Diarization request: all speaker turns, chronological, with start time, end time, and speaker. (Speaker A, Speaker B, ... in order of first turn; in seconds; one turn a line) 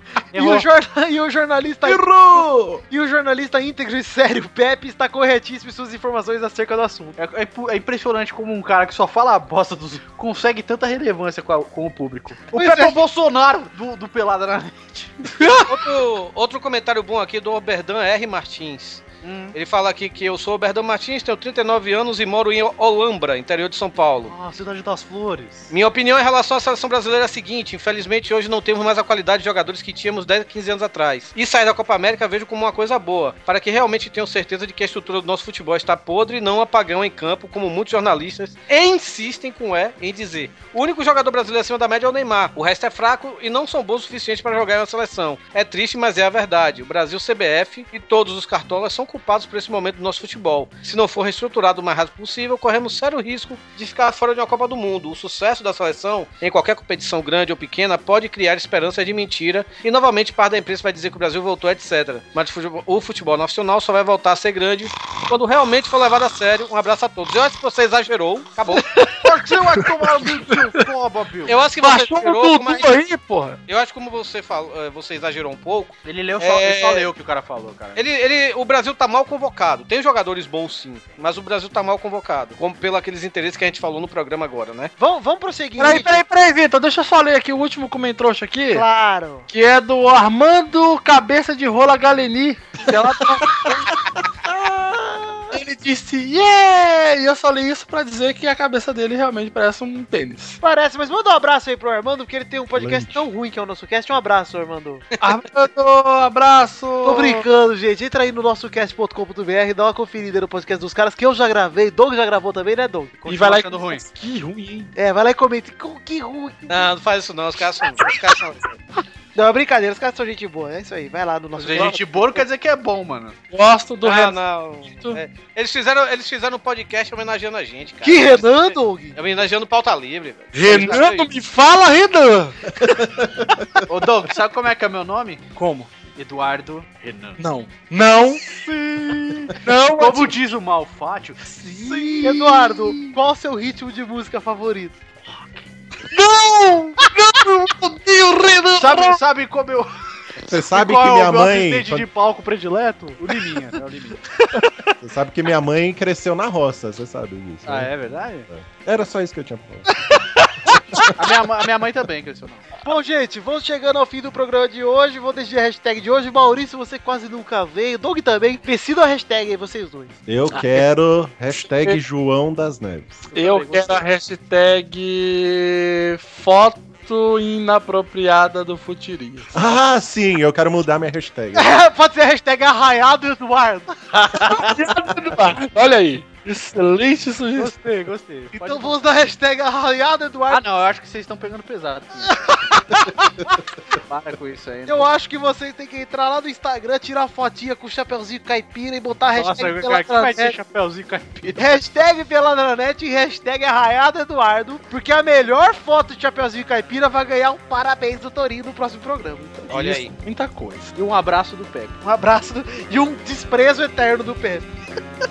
Speaker A: 0.3-0.7
Speaker B: 0.3-7.2
Speaker C: 1.8-2.8
Speaker A: 7.2-15.6
Speaker B: 12.6-13.0
Speaker D: 15.7-24.3
Speaker A: 19.2-19.6
Speaker A: 24.3-25.7
Speaker D: 25.7-68.9
Speaker A: 68.7-71.6
Speaker D: 71.5-72.9
Speaker E: 71.8-73.6
Speaker D: 73.7-77.1
Speaker A: 76.0-78.0
Speaker D: 78.0-84.9
Speaker B: 85.0-86.2
Speaker E: 85.8-88.9
Speaker B: 88.7-89.5
Speaker E: 89.5-94.0
Speaker C: 93.6-95.6
Speaker E: 95.5-100.6
Speaker B: 100.6-105.0
Speaker C: 102.8-103.3
Speaker E: 105.2-107.5
Speaker B: 107.0-113.4
Speaker A: 113.3-114.0
Speaker E: 113.3-114.9
Speaker B: 115.0-116.9
Speaker D: 116.7-118.8
Speaker B: 119.3-122.4
Speaker A: 121.6-123.4
Speaker E: 123.5-124.4
Speaker D: 124.0-131.3
Speaker E: 124.9-125.2
Speaker B: 128.0-129.2
Speaker E: 130.5-132.7
Speaker C: 132.8-133.8
Speaker A: 133.9-135.4
Speaker E: 135.6-135.9
Speaker A: 136.2-137.4
Speaker E: 137.4-138.6
Speaker E: 139.4-140.3
Speaker A: 139.9-142.5
Speaker B: 141.8-145.0
Speaker C: 141.8-142.2
Speaker E: 142.3-143.0
Speaker E: 146.1-149.2
Speaker A: 148.8-154.3
Speaker C: 150.5-152.1
Speaker C: 155.0-157.9
Speaker A: 157.7-158.5
Speaker C: 158.5-160.1
Speaker A: 161.2-162.7
Speaker B: 162.8-170.1
Speaker C: 170.3-173.3
Speaker E: 170.5-170.8
Speaker E: 173.3-179.8
Speaker B: 173.3-174.0
Speaker A: 173.5-173.9
Speaker C: 179.5-181.8
Speaker B: 181.6-184.6
Speaker E: 184.3-187.7
Speaker A: 187.6-189.0
Speaker B: 188.5-190.6
Speaker A: 190.5-192.4
Speaker B: 192.5-193.2
Speaker A: 193.9-195.1
Speaker B: 194.9-200.6
Speaker A: 199.3-201.7
Speaker B: 201.6-210.1
Speaker D: 209.7-210.1
Speaker A: 210.2-212.0
Speaker B: 212.0-214.7